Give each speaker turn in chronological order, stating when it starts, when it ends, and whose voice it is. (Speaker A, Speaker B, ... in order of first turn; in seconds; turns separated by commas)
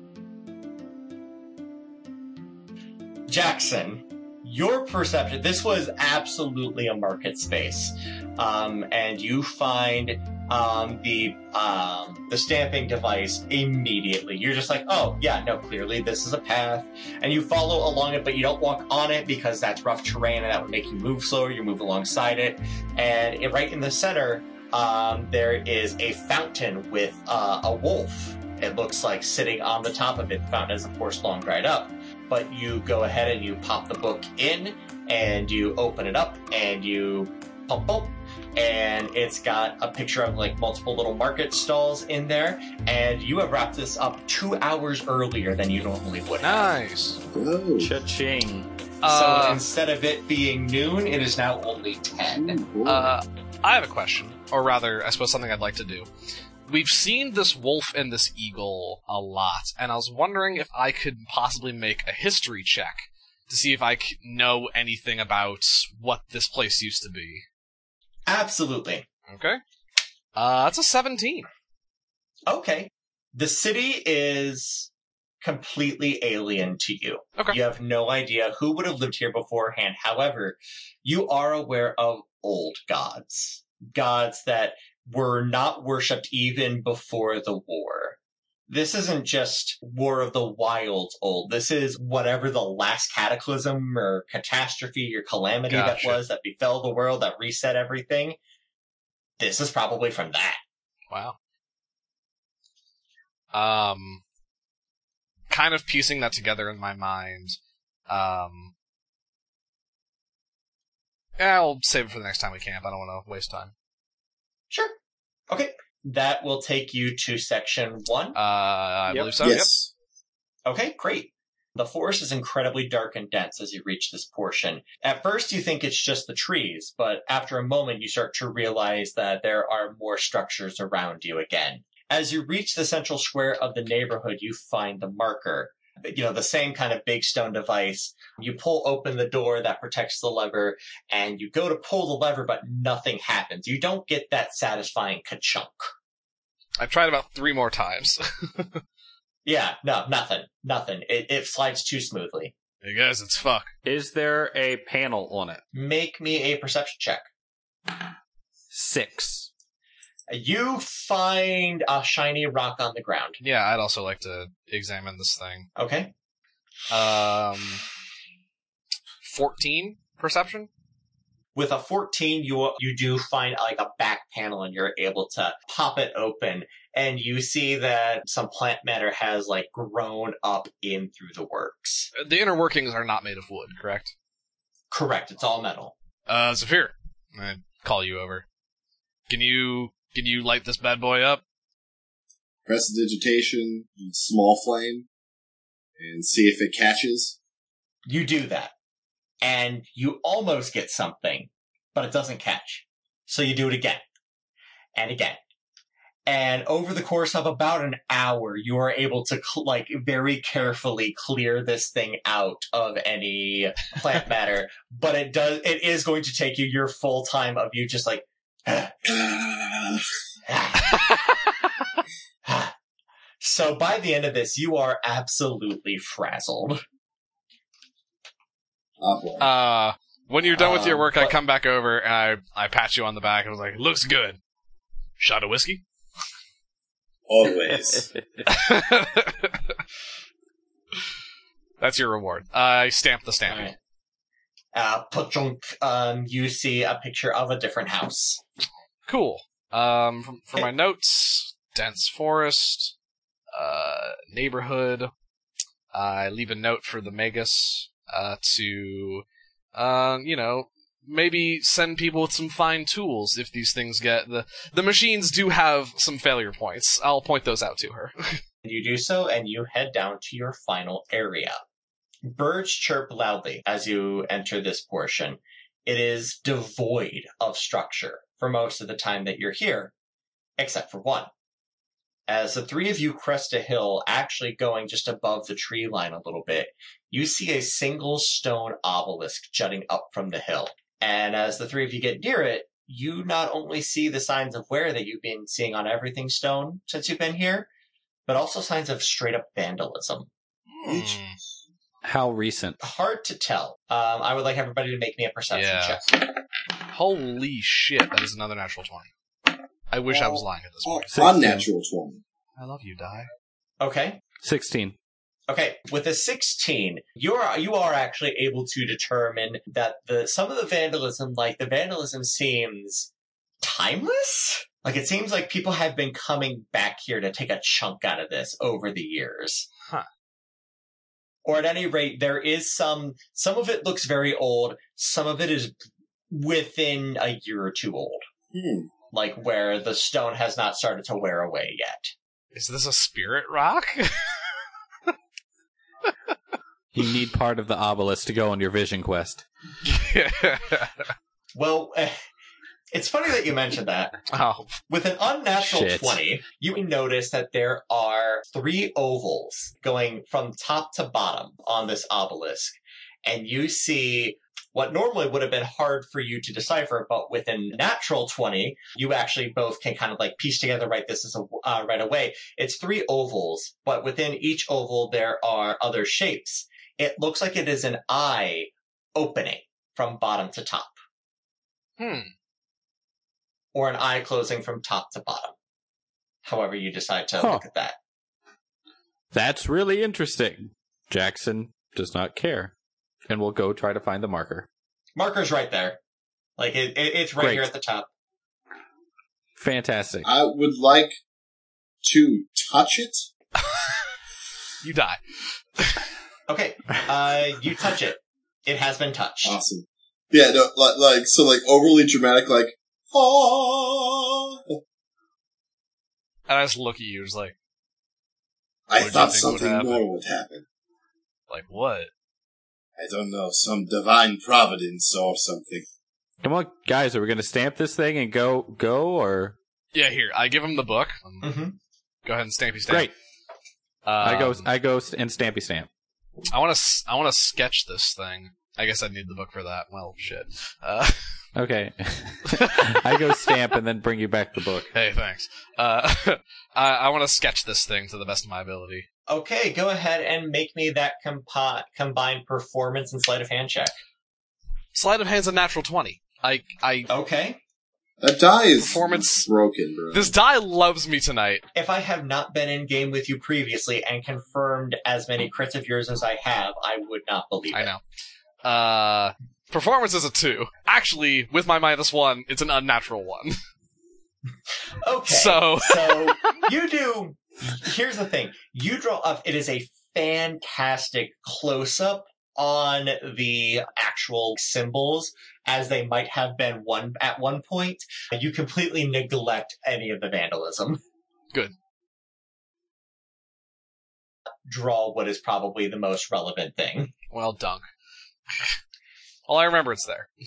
Speaker A: 3.3-46.7, Speaker B: 46.4-47.2, Speaker C: 47.3-47.9, Speaker D: 47.8-48.7, Speaker B: 49.0-49.6, Speaker A: 49.0-52.6, Speaker C: 52.3-53.1, Speaker B: 52.8-56.1, Speaker B: 56.7-67.4, Speaker A: 68.3-69.1, Speaker B: 69.3-69.6, Speaker B: 70.3-71.5, Speaker A: 72.5-74.9, Speaker A: 75.4-88.2, Speaker A: 88.7-98.4, Speaker B: 95.7-96.2, Speaker A: 99.4-100.6, Speaker B: 101.1-101.4, Speaker B: 103.5-104.2, Speaker B: 105.5-107.5, Speaker B: 108.1-108.7, Speaker B: 111.4-113.7, Speaker A: 114.7-115.0, Speaker A: 115.5-118.4, Speaker B: 118.3-119.7, Speaker D: 119.1-119.6, Speaker C: 119.4-119.9, Speaker A: 120.7-145.9, Speaker B: 146.8-148.8, Speaker A: 149.4-152.5, Speaker B: 152.8-153.7, Speaker D: 153.8-155.6, Speaker A: 155.7-157.2, Speaker D: 158.7-159.5, Speaker A: 160.3-163.4, Speaker B: 163.4-165.7, Speaker A: 165.8-166.1, Speaker B: 166.9-167.8, Speaker B: 169.2-170.7, Speaker A: 171.5-182.1, Speaker B: 182.1-184.1, Speaker A: 184.9-185.9, Speaker B: 186.3-188.4, Speaker B: 189.3-191.4, Speaker C: 192.7-195.1, Speaker C: 196.0-197.4, Speaker A: 198.1-198.7, Speaker A: 199.4-204.0, Speaker A: 204.9-205.4, Speaker A: 206.2-219.0, Speaker C: 219.0-220.1, Speaker A: 220.4-221.0, Speaker B: 220.9-221.2, Speaker A: 222.4-222.7, Speaker A: 223.4-226.8, Speaker C: 229.0-229.5, Speaker B: 229.4-234.4, Speaker A: 230.5-231.3, Speaker B: 235.2-235.8, Speaker C: 237.3-238.1, Speaker D: 237.7-238.5, Speaker B: 238.4-239.8, Speaker B: 241.8-243.7, Speaker A: 243.4-243.7, Speaker A: 244.7-248.4, Speaker B: 249.1-252.9, Speaker B: 253.5-255.1, Speaker B: 255.9-268.4, Speaker A: 268.6-271.6, Speaker A: 272.2-279.9, Speaker A: 280.6-281.3, Speaker A: 282.3-297.7, Speaker A: 298.3-300.3, Speaker B: 300.8-301.4, Speaker C: 300.8-301.2, Speaker D: 302.0-302.8, Speaker A: 302.8-306.0, Speaker B: 305.5-306.0, Speaker B: 306.9-309.1, Speaker B: 309.9-311.1, Speaker C: 310.1-312.2, Speaker D: 311.1-311.7, Speaker B: 312.6-313.3, Speaker A: 313.8-314.2, Speaker D: 314.4-314.9, Speaker A: 315.5-323.1, Speaker A: 323.6-329.7, Speaker A: 331.4-335.7, Speaker A: 336.3-338.2, Speaker C: 338.5-338.9, Speaker A: 339.1-342.1, Speaker B: 342.5-344.5, Speaker D: 346.9-349.4, Speaker B: 349.8-351.1, Speaker A: 351.5-352.1, Speaker A: 352.9-354.1, Speaker B: 354.3-354.7, Speaker A: 354.9-380.9, Speaker D: 355.6-356.2, Speaker B: 382.0-382.3, Speaker A: 383.7-385.5, Speaker A: 386.4-388.0, Speaker D: 387.4-387.6, Speaker D: 389.3-392.7, Speaker D: 393.3-394.7, Speaker A: 395.1-396.0, Speaker A: 396.6-398.1, Speaker D: 397.4-397.7, Speaker D: 399.6-400.3, Speaker C: 400.2-401.2, Speaker C: 402.0-403.3, Speaker B: 403.6-404.0, Speaker B: 404.8-405.2, Speaker B: 405.8-406.0, Speaker A: 406.5-409.6, Speaker C: 409.4-414.8, Speaker B: 416.5-417.5, Speaker C: 418.9-420.6, Speaker B: 419.0-420.0, Speaker B: 421.5-422.1, Speaker C: 423.0-425.9, Speaker D: 426.4-429.6, Speaker B: 429.9-431.4, Speaker A: 431.4-431.8, Speaker B: 432.2-433.1, Speaker B: 434.0-434.7, Speaker D: 434.2-435.9, Speaker B: 436.5-441.2, Speaker D: 441.5-444.9, Speaker B: 442.5-443.6, Speaker B: 444.9-449.1, Speaker A: 449.3-454.0, Speaker B: 454.9-457.1, Speaker A: 457.1-457.6, Speaker C: 458.2-460.3, Speaker B: 458.8-459.5, Speaker B: 460.1-461.6, Speaker A: 461.7-467.9, Speaker B: 467.7-468.0, Speaker B: 468.6-473.6, Speaker A: 475.0-491.0, Speaker B: 475.3-476.6, Speaker A: 494.6-497.1, Speaker B: 497.3-497.9, Speaker B: 498.5-498.7, Speaker B: 499.5-500.3